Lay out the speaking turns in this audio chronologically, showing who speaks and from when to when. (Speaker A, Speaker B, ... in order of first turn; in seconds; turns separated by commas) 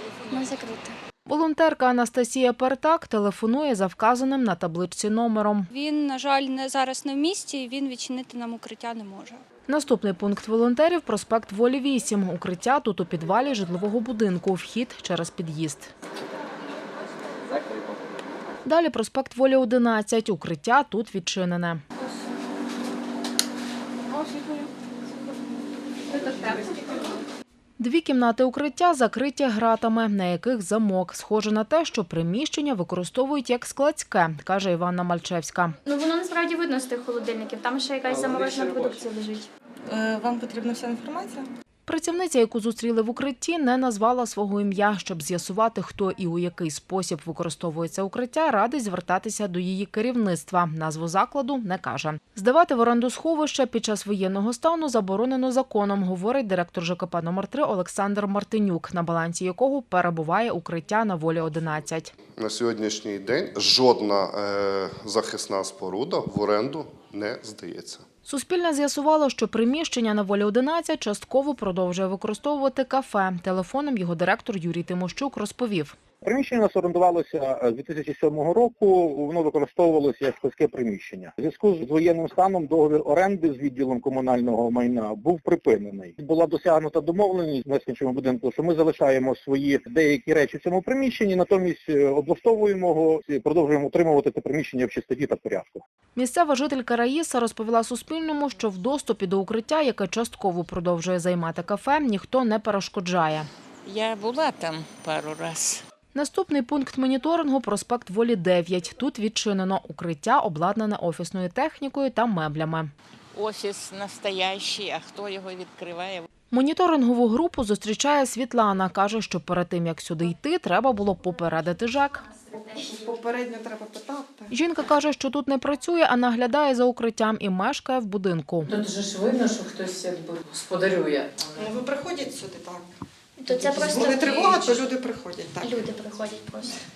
Speaker A: 0.3-0.9, Speaker B: 1.3-5.7, Speaker C: 5.7-9.4, Speaker B: 9.7-15.9, Speaker B: 18.6-21.8, Speaker B: 27.8-35.8, Speaker A: 35.9-39.5, Speaker D: 39.9-41.5, Speaker B: 41.9-62.1, Speaker E: 62.4-68.0, Speaker B: 68.3-76.0, Speaker F: 76.2-95.8, Speaker B: 96.2-103.5, Speaker G: 103.8-105.8, Speaker B: 106.1-112.9, Speaker G: 113.3-116.3, Speaker B: 116.5-122.3, Speaker D: 122.5-124.5, Speaker B: 124.5-128.7, Speaker H: 128.7-131.6, Speaker D: 131.5-132.9, Speaker A: 133.4-134.9, Speaker D: 133.5-135.9, Speaker A: 135.6-136.8